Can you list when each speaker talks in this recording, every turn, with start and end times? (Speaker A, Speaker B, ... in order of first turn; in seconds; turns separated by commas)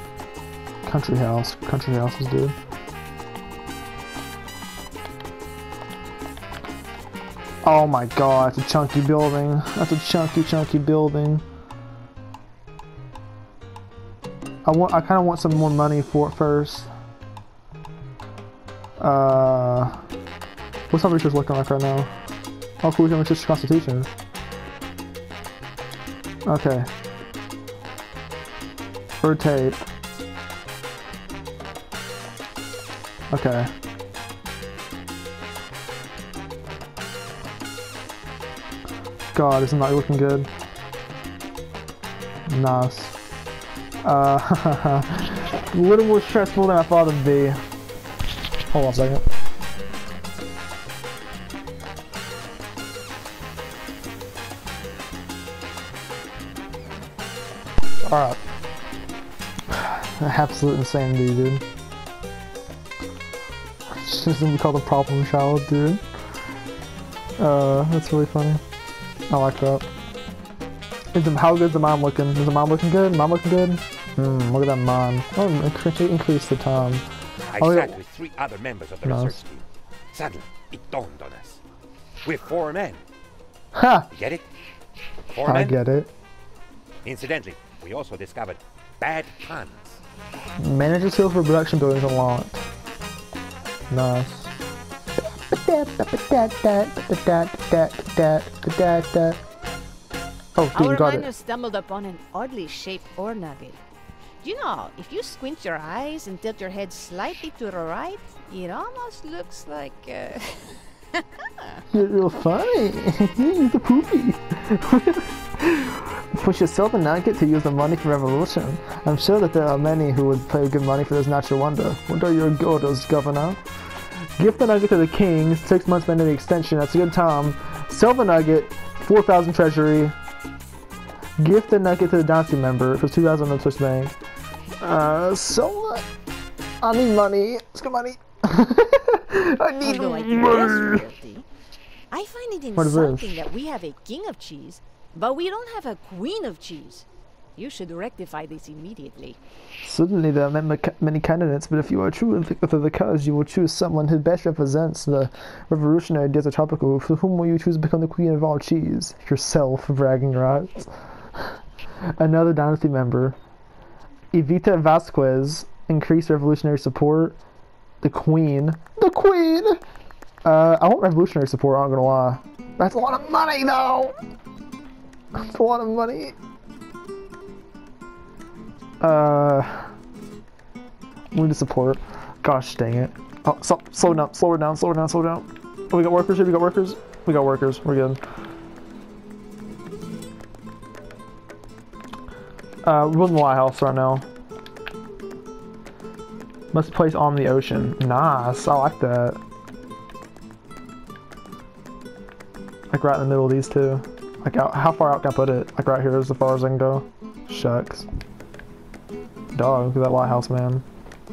Speaker A: 0.8-2.5, Speaker A: 7.6-11.4, Speaker A: 14.6-16.9, Speaker A: 19.0-20.0, Speaker A: 20.9-22.1, Speaker A: 22.8-24.1, Speaker A: 26.4-26.9, Speaker A: 29.2-29.9, Speaker A: 33.3-33.7, Speaker A: 39.3-40.5, Speaker A: 42.5-43.1, Speaker A: 44.0-47.6, Speaker A: 48.7-49.2, Speaker A: 58.0-58.4, Speaker A: 59.7-61.6, Speaker A: 63.9-66.0, Speaker A: 67.4-68.6, Speaker A: 69.3-69.8, Speaker A: 71.1-77.0, Speaker B: 77.5-81.6, Speaker A: 77.5-78.0, Speaker A: 79.0-79.4, Speaker B: 82.2-83.0, Speaker A: 83.7-84.1, Speaker B: 84.1-84.4, Speaker B: 85.3-85.8, Speaker A: 85.4-86.1, Speaker B: 87.0-90.0, Speaker A: 90.5-92.6, Speaker A: 93.9-94.5, Speaker A: 95.2-99.4, Speaker A: 100.5-101.3, Speaker C: 100.7-103.8, Speaker C: 104.4-111.8, Speaker A: 111.9-123.6, Speaker A: 124.4-130.2, Speaker A: 131.4-134.2, Speaker A: 134.8-136.1, Speaker A: 136.8-141.0, Speaker C: 139.8-141.4, Speaker C: 142.1-147.0, Speaker A: 142.7-143.4, Speaker C: 147.6-149.4, Speaker A: 149.8-161.6, Speaker A: 162.2-163.3, Speaker A: 164.3-167.4, Speaker A: 168.0-169.8, Speaker A: 170.4-174.1, Speaker A: 175.3-176.3, Speaker A: 179.0-179.9, Speaker A: 181.3-188.2, Speaker A: 192.8-194.2, Speaker A: 196.7-199.4, Speaker A: 202.9-208.1, Speaker A: 209.5-210.8